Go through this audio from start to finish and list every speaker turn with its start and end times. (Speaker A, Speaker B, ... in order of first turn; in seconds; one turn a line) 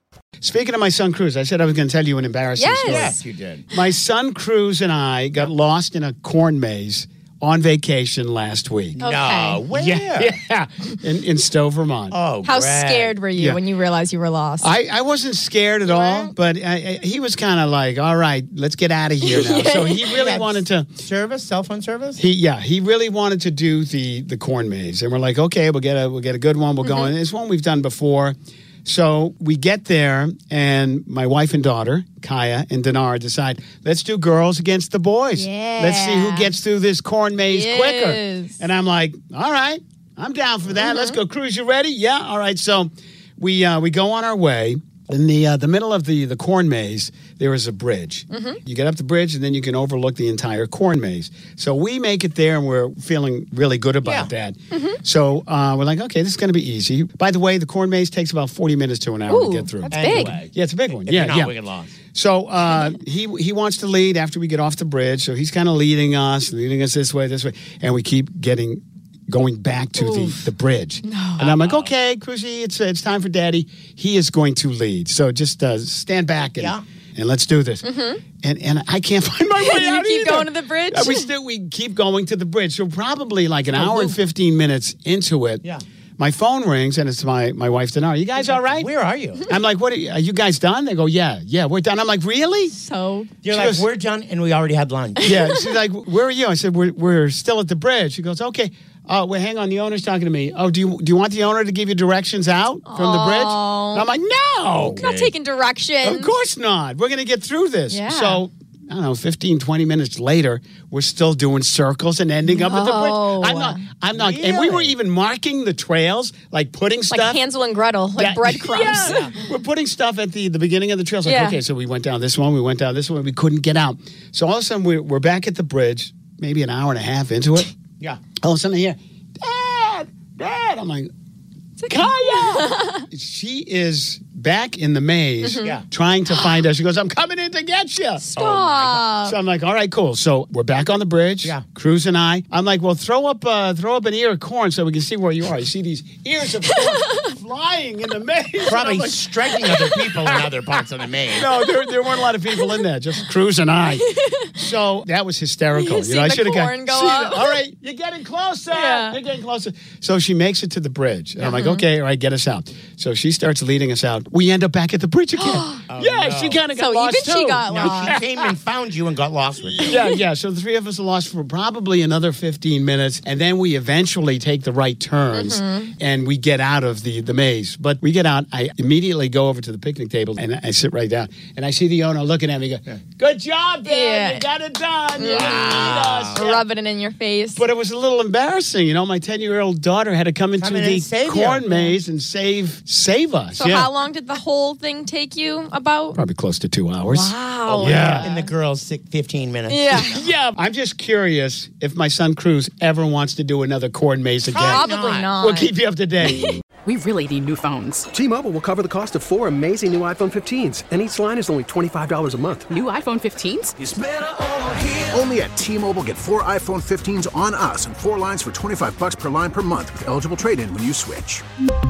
Speaker A: 0.4-3.1
Speaker B: 2.5-3.2
Speaker C: 2.9-3.7
Speaker A: 3.7-9.0
Speaker C: 8.9-10.3
Speaker B: 9.0-9.6
Speaker A: 9.7-12.1
Speaker C: 12.1-13.2
Speaker B: 12.4-14.7
Speaker A: 13.3-13.6
Speaker A: 14.6-20.9
Speaker C: 15.9-16.3
Speaker B: 16.0-16.3
Speaker B: 19.2-20.2
Speaker C: 20.1-22.2
Speaker A: 22.2-61.5
Speaker B: 26.8-27.1
Speaker B: 35.3-36.5
Speaker B: 37.4-38.6
Speaker B: 40.9-41.1
Speaker B: 48.3-48.6
Speaker C: 54.0-54.3
Speaker B: 59.3-60.4
Speaker C: 59.8-62.0
Speaker A: 62.1-85.6
Speaker B: 71.0-71.4
Speaker C: 71.4-71.9
Speaker C: 76.5-76.8
Speaker B: 77.8-78.2
Speaker B: 79.6-81.3
Speaker C: 83.7-84.2
Speaker A: 86.2-88.9
Speaker C: 88.4-89.5
Speaker A: 89.5-92.7
Speaker B: 92.7-93.4
Speaker C: 93.4-95.3
Speaker A: 93.5-93.8
Speaker A: 95.2-105.0
Speaker B: 102.9-104.1
Speaker C: 104.7-105.3
Speaker B: 105.0-106.3
Speaker A: 106.0-117.4
Speaker B: 107.9-108.4
Speaker B: 112.4-113.8
Speaker C: 114.1-114.9
Speaker B: 117.1-119.2
Speaker A: 118.2-127.8
Speaker C: 119.1-119.4
Speaker B: 121.2-121.6
Speaker A: 128.3-131.1
Speaker B: 131.8-133.0
Speaker A: 131.8-149.3
Speaker B: 135.4-135.7
Speaker B: 136.3-136.6
Speaker B: 138.2-139.4
Speaker C: 138.3-138.9
Speaker C: 148.6-151.5
Speaker A: 149.9-150.5
Speaker A: 151.3-168.3
Speaker B: 154.1-154.4
Speaker B: 155.7-157.6
Speaker B: 158.8-159.2
Speaker B: 161.4-161.8
Speaker B: 165.4-165.9
Speaker C: 165.9-166.8
Speaker B: 166.7-168.2
Speaker C: 167.3-169.9
Speaker A: 169.7-186.6
Speaker B: 175.3-175.9
Speaker B: 183.8-184.4
Speaker B: 185.1-187.6
Speaker C: 185.3-186.5
Speaker A: 187.6-193.9
Speaker C: 190.6-191.7
Speaker B: 191.7-191.9
Speaker B: 193.5-196.2
Speaker A: 196.1-198.3
Speaker B: 197.1-198.5
Speaker C: 197.7-200.1
Speaker B: 199.7-200.2
Speaker A: 200.0-206.6
Speaker C: 204.4-205.3
Speaker B: 204.7-205.7
Speaker D: 206.8-208.1
Speaker E: 208.1-212.7
Speaker D: 212.7-213.7
Speaker F: 213.8-221.4